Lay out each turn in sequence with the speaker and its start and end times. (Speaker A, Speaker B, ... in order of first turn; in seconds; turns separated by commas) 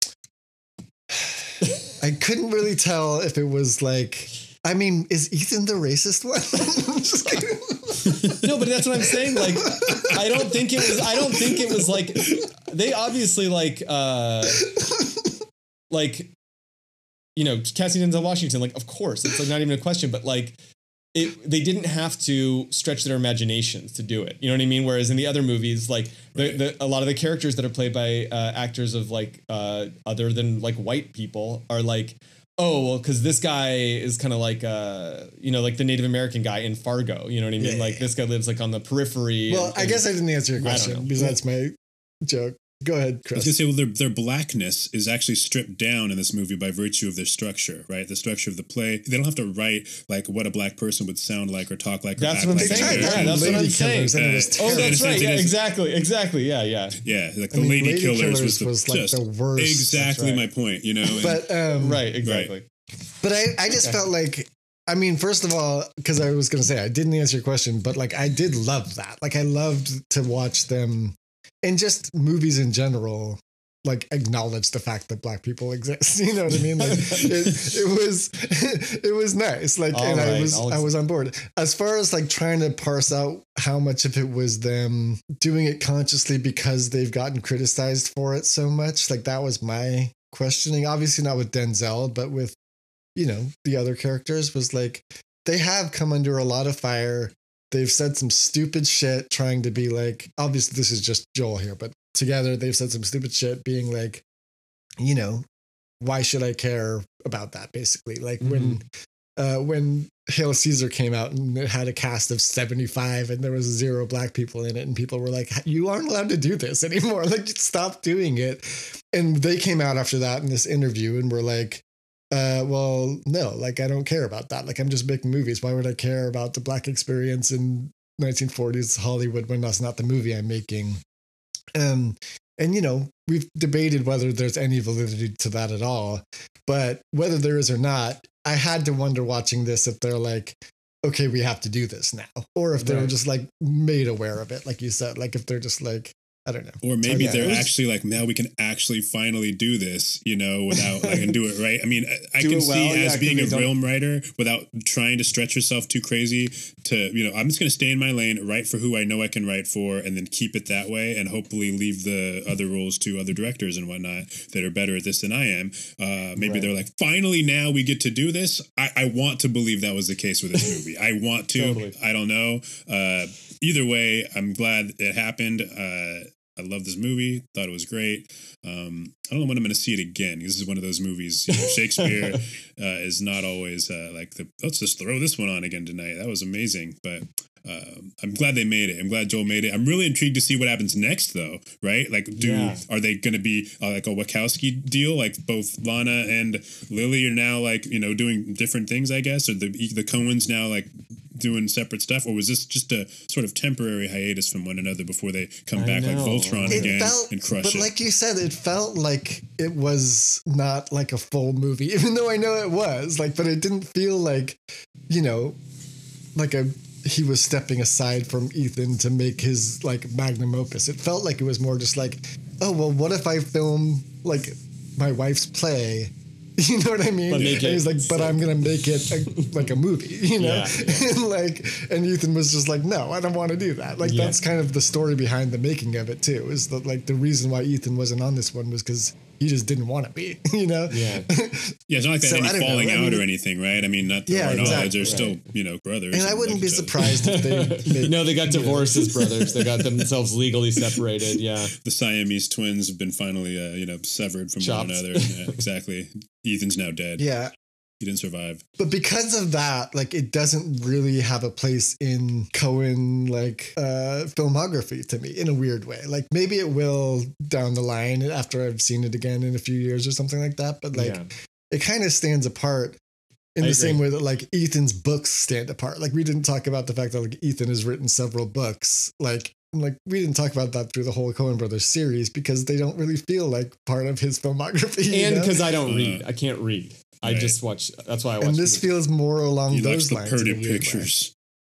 Speaker A: 1.1-8.4, Speaker B: 8.3-14.7, Speaker A: 9.4-11.8, Speaker A: 14.7-15.3, Speaker B: 15.9-16.3, Speaker B: 17.4-20.6, Speaker B: 21.1-40.0, Speaker C: 26.3-26.6, Speaker A: 37.6-38.1, Speaker A: 39.5-43.5, Speaker B: 40.6-41.4, Speaker C: 43.3-55.6, Speaker B: 52.2-57.0, Speaker A: 52.5-55.3, Speaker C: 57.0-61.5, Speaker A: 57.5-60.3, Speaker B: 60.0-60.4, Speaker A: 61.2-62.0, Speaker B: 61.7-62.7, Speaker C: 62.2-62.5, Speaker A: 63.2-92.6, Speaker B: 76.8-77.3, Speaker B: 79.9-80.9, Speaker A: 93.2-104.2, Speaker A: 105.0-105.4, Speaker A: 106.0-108.8, Speaker B: 108.4-108.8, Speaker A: 109.4-131.0, Speaker A: 131.7-147.7, Speaker B: 142.8-143.1, Speaker C: 146.8-207.9, Speaker B: 147.1-147.7, Speaker B: 150.7-151.3, Speaker B: 152.4-153.7, Speaker B: 166.4-166.7, Speaker B: 171.5-171.9, Speaker B: 181.5-182.4, Speaker B: 192.3-192.8, Speaker B: 205.7-206.9, Speaker A: 206.7-215.6, Speaker A: 216.3-243.2, Speaker B: 227.3-228.5, Speaker B: 230.4-231.1, Speaker B: 234.0-234.4, Speaker B: 240.9-241.3, Speaker C: 241.9-247.0, Speaker A: 244.3-245.2, Speaker B: 244.6-245.4, Speaker A: 246.1-249.0, Speaker B: 247.0-251.7, Speaker C: 251.8-257.2, Speaker B: 254.6-255.6, Speaker A: 257.2-257.5, Speaker C: 258.0-258.6, Speaker A: 258.8-273.0, Speaker B: 270.9-271.3, Speaker A: 273.6-285.6, Speaker B: 273.6-274.0, Speaker B: 285.1-288.9, Speaker C: 285.9-286.2, Speaker C: 287.2-287.6, Speaker A: 288.4-291.1, Speaker C: 289.7-291.3